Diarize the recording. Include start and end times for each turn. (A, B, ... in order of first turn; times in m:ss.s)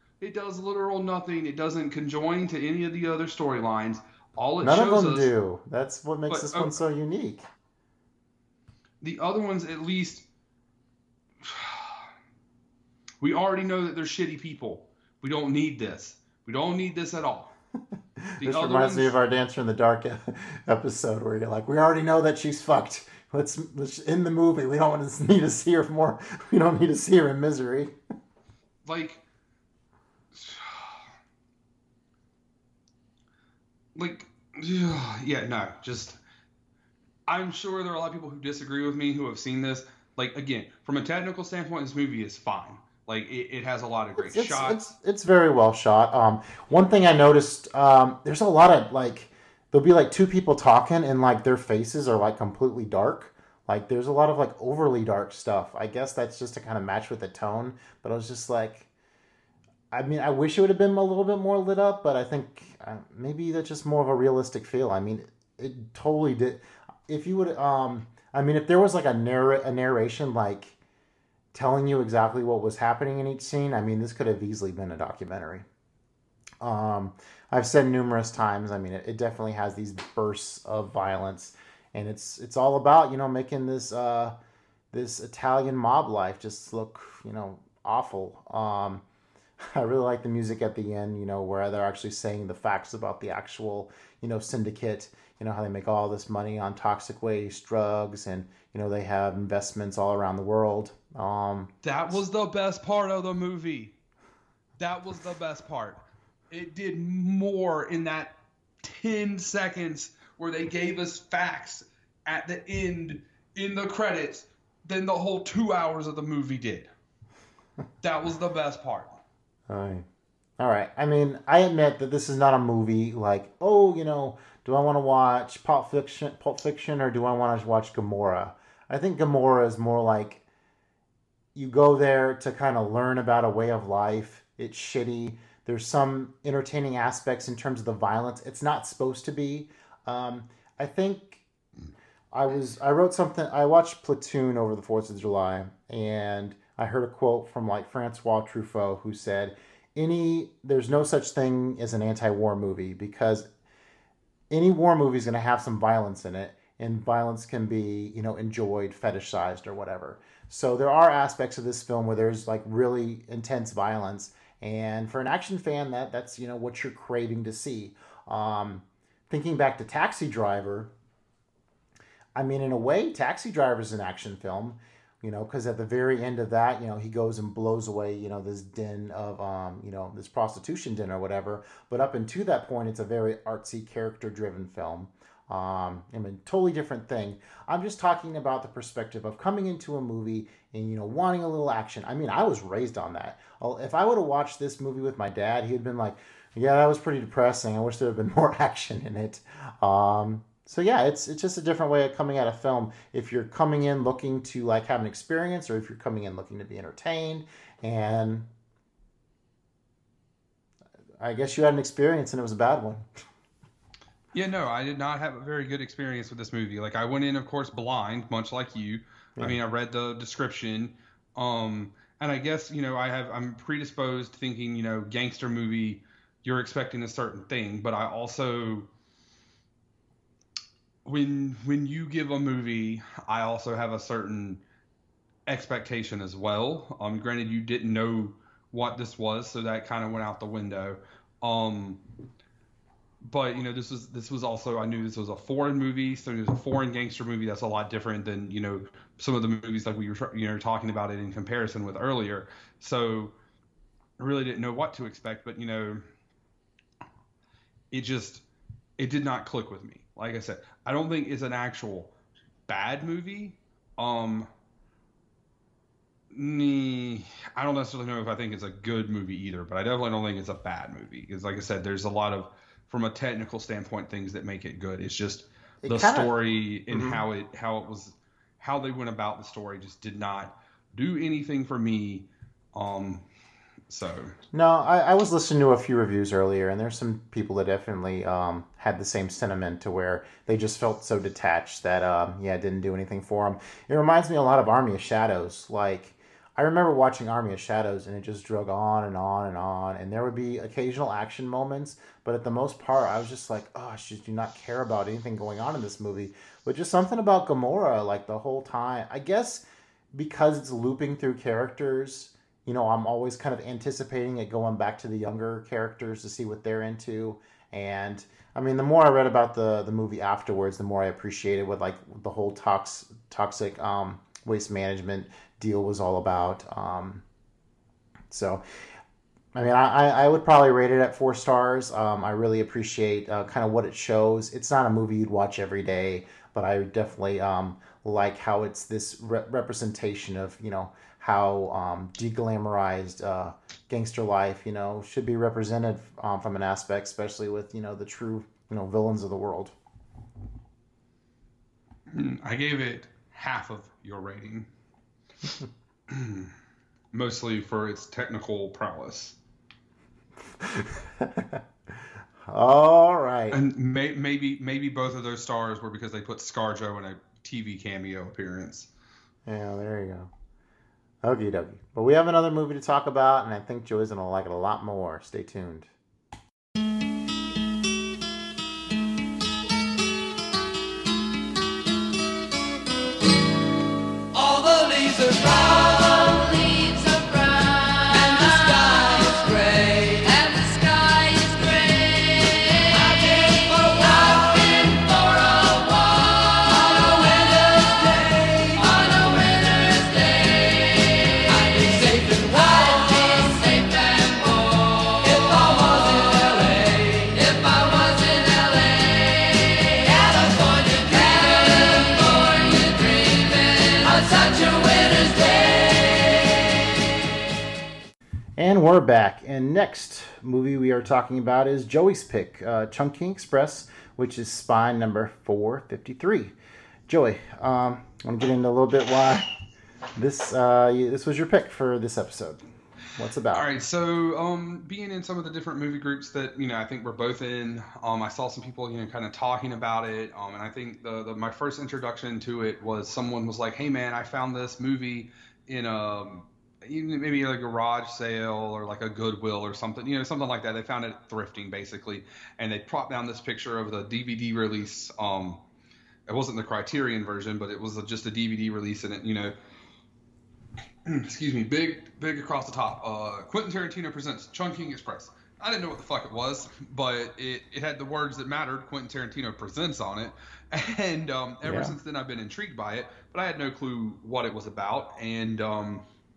0:00.2-0:05.3 A
0:04.6-0:07.5 B
0:06.3-0:06.8 A
0:09.0-0:10.2 A
0:11.4-0:12.1 A
0:13.2-0:17.5 A
0:18.4-0:28.0 B
0:18.4-0:19.2 A
0:28.8-0:29.2 A
0:30.3-0:31.0 A
0:34.0-0:36.2 A
0:37.3-0:44.9 A
0:44.2-0:58.9 B
0:59.9-1:10.8 B
1:11.5-1:15.7 B
1:16.6-1:24.4 B
1:24.9-1:29.0 B
1:29.6-1:41.7 B
1:41.8-1:44.0 A
1:44.8-1:56.9 A
1:58.0-1:59.2 A
1:59.7-2:00.1 B
2:00.6-2:10.4 B
2:11.6-2:21.4 B
2:22.3-2:33.5 B
2:34.5-2:50.9 B
2:52.4-3:28.5 B
3:31.2-3:33.1 B
3:34.3-3:48.9 A
3:51.0-3:54.6 A
3:55.5-4:02.0 A
4:03.2-4:13.3 A
4:14.2-4:16.0 A
4:17.9-4:18.4 A
4:19.0-4:22.1 A
4:22.7-4:24.5 A
4:26.3-4:43.2 A
4:35.8-4:36.3 B
4:36.9-4:37.2 B
4:43.9-4:44.3 A
4:44.5-5:27.2 B
5:28.3-5:28.6 B
5:29.5-5:49.8 B
5:52.1-5:54.7 A
5:56.1-5:56.5 A
5:57.1-5:59.4 A
6:00.6-6:01.6 B
6:02.5-6:03.6 B
6:03.5-6:08.9 A
6:09.5-6:10.3 B
6:11.2-6:15.9 B
6:24.3-6:56.6 C
6:58.6-7:06.6 B
7:07.1-7:09.5 B
7:10.2-7:12.6 B
7:13.2-7:13.7 B
7:13.5-7:35.6 A
7:36.3-7:39.6 A
7:41.0-7:56.0 A
7:51.6-7:52.0 B